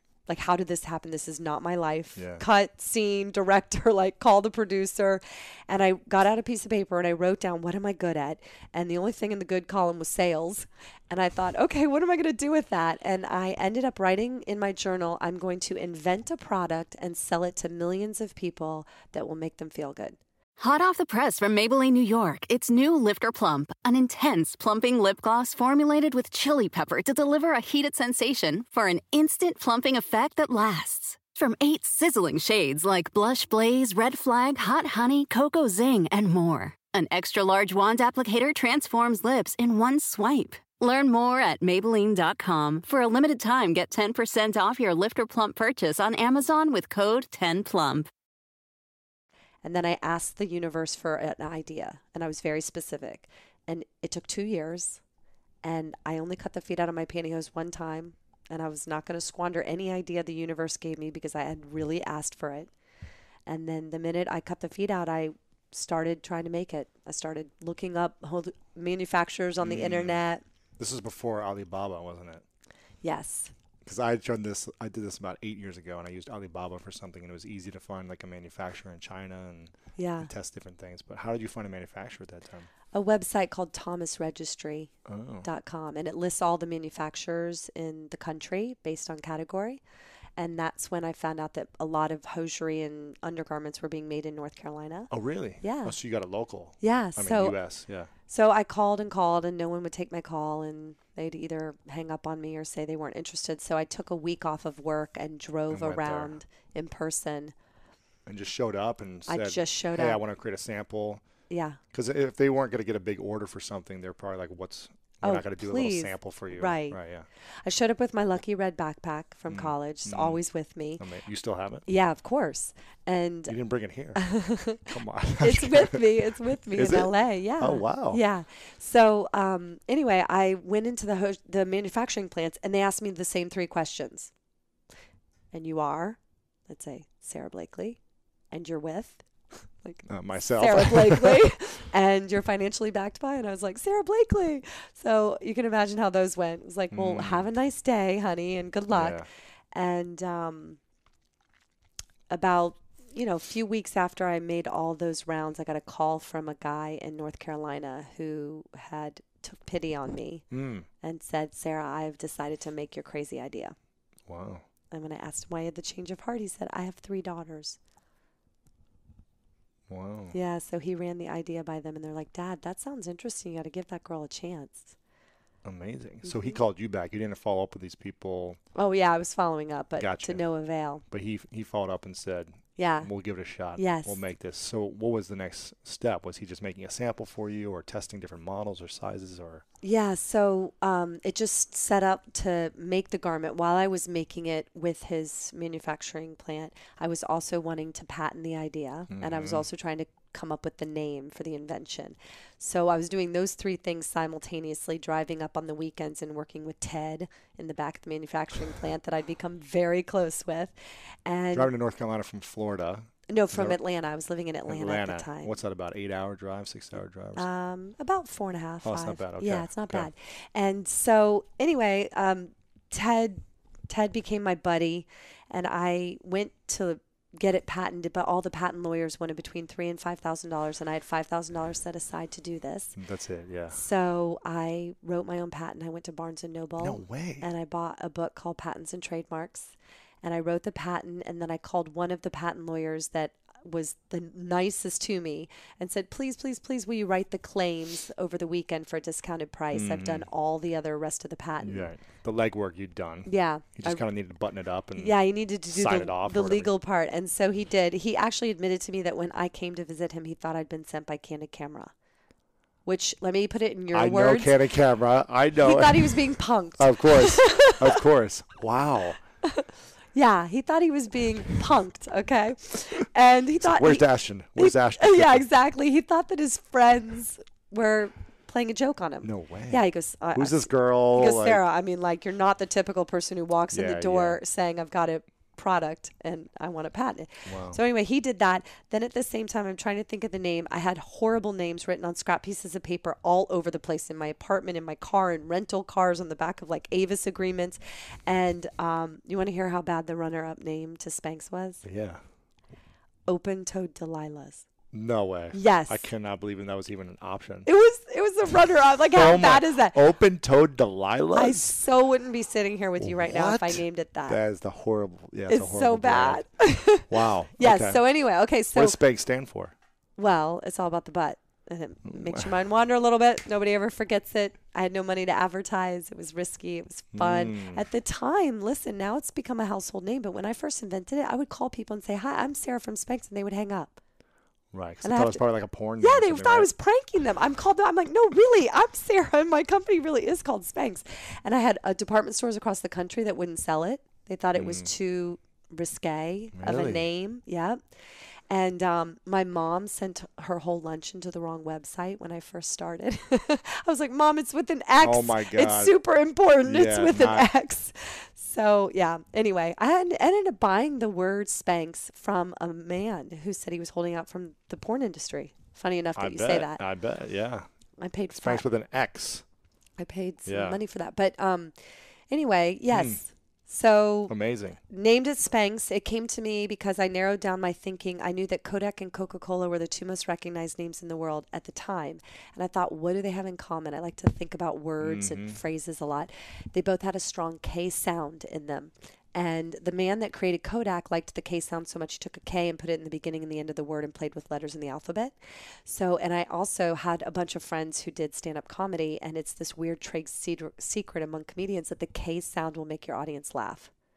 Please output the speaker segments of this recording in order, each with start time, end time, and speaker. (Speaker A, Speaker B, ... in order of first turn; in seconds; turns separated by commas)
Speaker A: 0.3-20.2, Speaker B: 2.2-2.5, Speaker C: 20.6-48.1, Speaker A: 49.6-55.0, Speaker A: 55.6-62.7, Speaker A: 63.5-70.4, Speaker B: 69.6-70.2, Speaker B: 70.8-72.4, Speaker A: 73.0-73.5, Speaker B: 73.8-82.7, Speaker A: 80.0-80.3, Speaker A: 82.9-84.9, Speaker B: 85.1-85.5, Speaker A: 85.4-89.8, Speaker A: 90.4-96.0, Speaker B: 95.1-98.1, Speaker A: 96.8-97.6, Speaker A: 98.3-107.5, Speaker B: 105.7-106.4, Speaker B: 108.3-111.2, Speaker A: 109.3-110.2, Speaker A: 111.5-111.8, Speaker B: 111.9-117.3, Speaker A: 115.2-117.0, Speaker A: 117.6-121.0, Speaker B: 119.5-120.4, Speaker B: 121.0-121.9, Speaker A: 121.9-123.5, Speaker B: 123.5-124.2, Speaker A: 124.2-134.3, Speaker B: 124.9-128.2, Speaker A: 135.5-138.0, Speaker A: 138.5-139.2, Speaker A: 139.8-149.2, Speaker B: 140.1-141.5, Speaker B: 146.9-147.5, Speaker B: 148.9-149.3, Speaker A: 149.7-150.8, Speaker A: 152.3-160.5, Speaker B: 160.5-160.9, Speaker A: 161.0-163.8, Speaker B: 164.3-164.7, Speaker A: 164.9-167.8, Speaker B: 169.9-170.4, Speaker A: 170.3-174.9, Speaker B: 175.6-178.6, Speaker A: 176.2-176.6, Speaker A: 178.8-181.0, Speaker B: 180.0-180.5, Speaker B: 181.1-189.7, Speaker A: 182.8-183.1, Speaker A: 183.8-184.2, Speaker A: 189.8-210.8, Speaker B: 199.1-199.7, Speaker A: 211.3-211.7, Speaker B: 211.5-213.8, Speaker A: 213.3-215.5, Speaker B: 214.7-217.5, Speaker A: 217.4-233.0, Speaker B: 218.8-220.1, Speaker B: 233.0-233.8, Speaker A: 233.7-251.9, Speaker B: 236.8-237.5, Speaker B: 249.7-250.3, Speaker B: 251.6-256.7, Speaker A: 253.3-254.0, Speaker A: 255.0-261.9, Speaker A: 262.9-264.6, Speaker B: 263.9-266.2, Speaker A: 265.6-268.0, Speaker B: 266.8-269.2, Speaker A: 269.5-301.8, Speaker B: 273.6-275.5, Speaker B: 279.2-281.6, Speaker B: 283.7-284.4, Speaker B: 287.5-287.8, Speaker B: 301.8-302.2, Speaker A: 303.3-304.6, Speaker B: 304.9-307.7, Speaker A: 305.5-306.1, Speaker A: 307.7-310.0, Speaker B: 309.1-311.7, Speaker A: 311.3-314.4, Speaker B: 313.0-316.4, Speaker A: 315.5-319.0, Speaker B: 317.1-318.0, Speaker B: 318.7-319.7, Speaker A: 320.2-334.0, Speaker B: 322.1-322.5, Speaker B: 327.1-327.9, Speaker B: 334.7-336.7, Speaker A: 335.0-347.8, Speaker B: 344.5-344.9, Speaker B: 346.5-347.1, Speaker A: 348.5-366.8, Speaker B: 355.0-355.9, Speaker B: 356.6-357.5, Speaker B: 366.1-367.7, Speaker A: 368.0-368.6, Speaker B: 368.4-369.4, Speaker A: 370.0-371.7, Speaker B: 370.5-370.8, Speaker A: 372.3-374.4, Speaker B: 372.9-373.3, Speaker B: 374.3-374.8, Speaker A: 374.9-403.9, Speaker B: 385.0-385.6